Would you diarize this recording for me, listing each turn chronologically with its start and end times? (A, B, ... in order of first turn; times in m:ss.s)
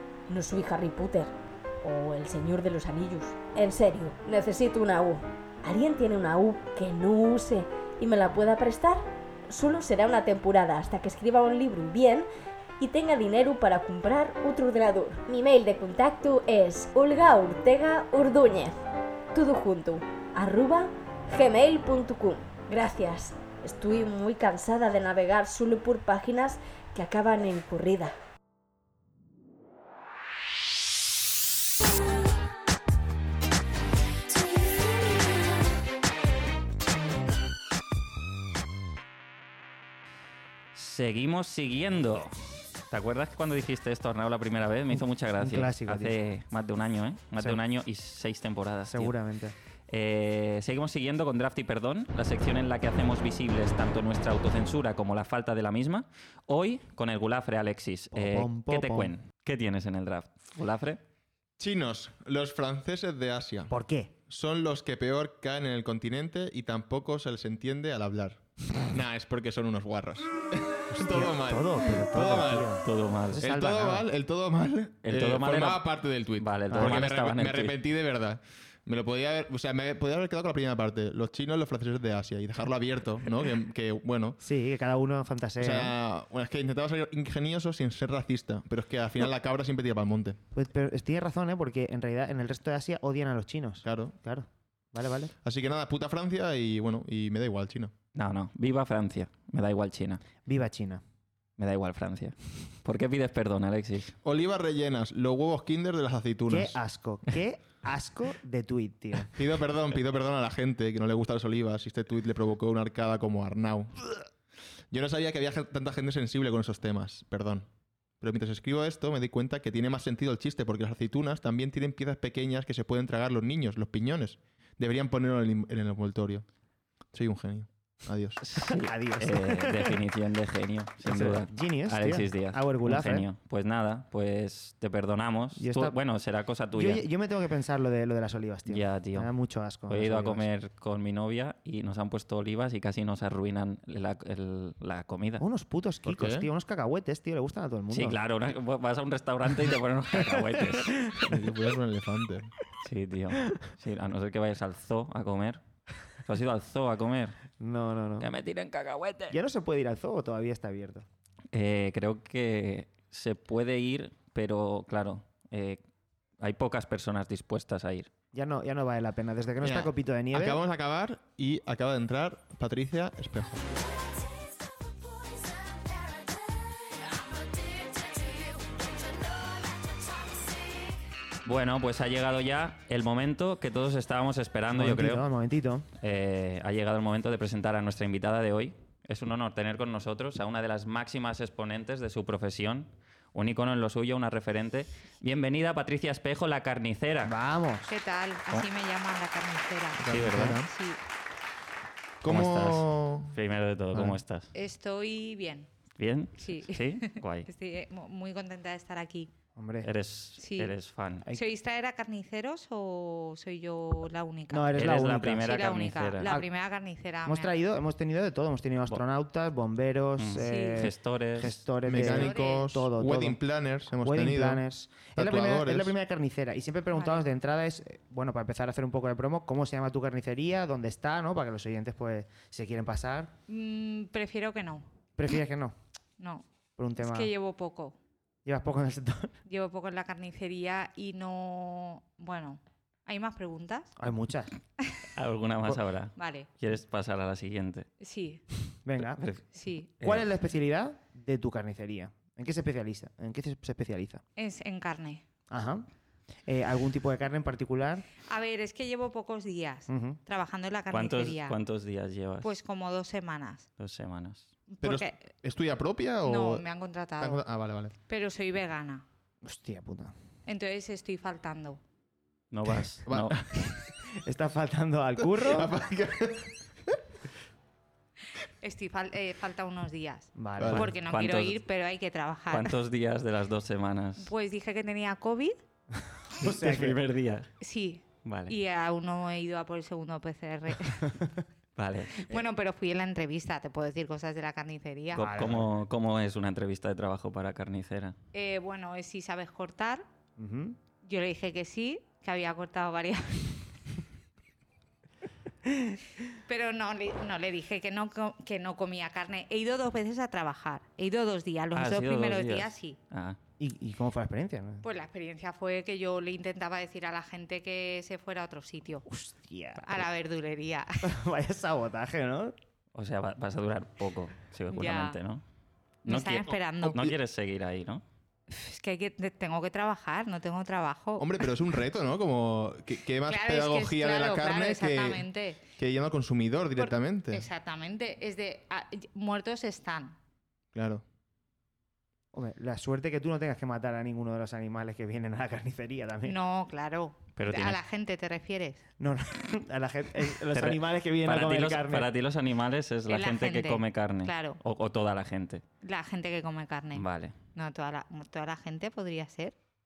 0:00.3-0:12.3 A
0:12.8-0:18.8 A
0:19.3-0:28.1 A
0:40.7-0:42.3 B
0:42.9-0:49.1 B
0:45.4-0:46.2 C
0:48.9-0:49.6 C
0:49.9-1:01.0 B
0:58.1-0:59.1 C
1:01.6-1:03.7 D
1:03.7-1:04.1 C
1:04.3-1:12.7 D
1:10.9-1:14.1 C
1:12.8-1:13.5 B
1:13.4-1:24.4 D
1:15.0-1:15.8 B
1:16.4-1:17.8 B
1:16.7-1:17.1 C
1:24.4-1:26.0 C
1:25.6-1:30.4 D
1:30.5-1:35.3 C
1:33.8-1:34.1 D
1:35.4-1:37.9 D
1:38.2-1:40.2 B
1:40.5-1:41.0 C
1:41.6-1:44.1 B
1:44.2-1:46.8 D
1:46.5-1:49.3 C
1:49.3-1:54.2 D
1:54.9-1:57.7 D
1:58.2-2:06.4 D
2:07.1-2:08.4 D
2:08.4-2:17.0 B
2:08.7-2:10.0 C
2:11.0-2:13.3 C
2:15.6-2:16.0 C
2:16.8-2:20.5 C
2:18.7-2:19.3 B
2:19.9-2:25.4 B
2:25.4-2:28.2 C
2:26.1-2:26.5 D
2:27.9-2:31.0 B
2:30.4-2:31.3 C
2:31.2-2:32.5 D
2:32.8-2:35.6 B
2:36.2-2:37.4 B
2:37.6-2:38.3 C
2:38.2-2:39.4 B
2:39.3-2:41.1 C
2:41.5-2:45.8 B
2:46.4-2:48.1 B
2:48.3-2:50.6 C
2:49.6-2:53.6 D
3:01.4-3:05.2 B
3:04.7-3:05.9 C
3:06.0-3:17.3 B
3:17.2-3:17.9 C
3:17.9-3:21.0 E
3:20.0-3:20.7 D
3:20.1-3:20.6 B
3:22.2-3:23.4 D
3:22.2-3:24.5 B
3:24.5-3:25.7 E
3:26.0-3:27.5 B
3:26.4-3:29.3 E
3:29.6-3:29.9 C
3:29.8-3:31.2 B
3:30.4-3:30.7 E
3:31.3-3:34.8 E
3:34.5-3:35.6 C
3:34.8-3:36.3 B
3:35.4-3:37.6 E
3:36.2-3:36.5 C
3:37.2-3:53.3 C
3:40.2-3:41.6 B
3:40.4-3:40.9 E
3:41.8-3:44.6 D
3:42.0-3:42.7 E
3:45.2-3:45.9 D
3:47.0-3:47.2 E
3:53.5-3:54.9 E
3:55.2-3:55.8 C
3:56.2-3:56.4 E
3:56.8-3:57.3 C
3:57.0-3:58.0 E
3:58.4-3:59.3 C
3:59.5-4:03.9 E
4:04.0-4:04.5 C
4:05.2-4:07.9 B
4:06.2-4:06.5 E
4:08.0-4:08.4 E
4:08.8-4:09.2 C
4:09.0-4:09.4 B
4:09.6-4:09.9 E
4:10.0-4:10.2 B
4:10.0-4:14.2 C
4:14.4-4:15.2 E
4:15.5-4:15.9 C
4:16.5-4:18.1 C
4:18.3-4:21.6 E
4:19.9-4:20.2 C
4:20.9-4:22.5 B
4:22.4-4:23.7 E
4:23.8-4:24.5 B
4:24.7-4:25.2 E
4:24.8-4:26.6 D
4:26.2-4:27.4 E
4:27.2-4:27.9 D
4:28.1-4:29.0 E
4:29.4-4:30.1 C
4:30.5-4:31.8 E
4:32.5-4:33.4 B
4:33.1-4:33.8 D
4:34.1-4:35.7 C
4:35.2-4:37.0 D
4:38.6-4:42.8 E
4:40.4-4:40.8 C
4:40.7-4:41.6 B
4:42.5-4:44.3 B
4:44.2-4:45.6 E
4:46.0-4:47.0 C
4:46.4-4:47.5 B
4:47.6-4:51.2 E
4:48.2-4:48.5 B
4:51.8-4:52.3 B
4:52.2-4:55.3 E
4:55.1-4:58.2 B
4:55.2-4:55.7 C
4:58.3-5:00.0 E
5:00.4-5:00.8 C
5:01.0-5:03.6 E
5:05.7-5:06.0 C
5:06.3-5:13.0 E
5:11.8-5:13.4 B
5:13.6-5:14.8 C
5:14.8-5:19.0 E
5:19.1-5:20.1 C
5:19.8-5:21.1 E
5:21.0-5:22.6 C
5:23.0-5:25.4 B
5:24.7-5:25.2 E
5:26.0-5:27.0 E
5:26.1-5:28.0 B
5:26.8-5:27.1 D
5:28.5-5:31.5 E
5:31.2-5:35.3 D
5:33.3-5:35.6 E
5:35.8-5:37.4 D
5:36.8-5:40.2 E
5:40.7-5:41.0 D
5:42.3-5:46.4 C
5:46.2-5:48.8 E
5:47.4-5:47.8 B
5:49.0-5:52.1 C
5:50.5-5:55.6 B
5:53.1-5:54.6 E
5:55.8-5:59.5 E
5:57.0-5:57.4 B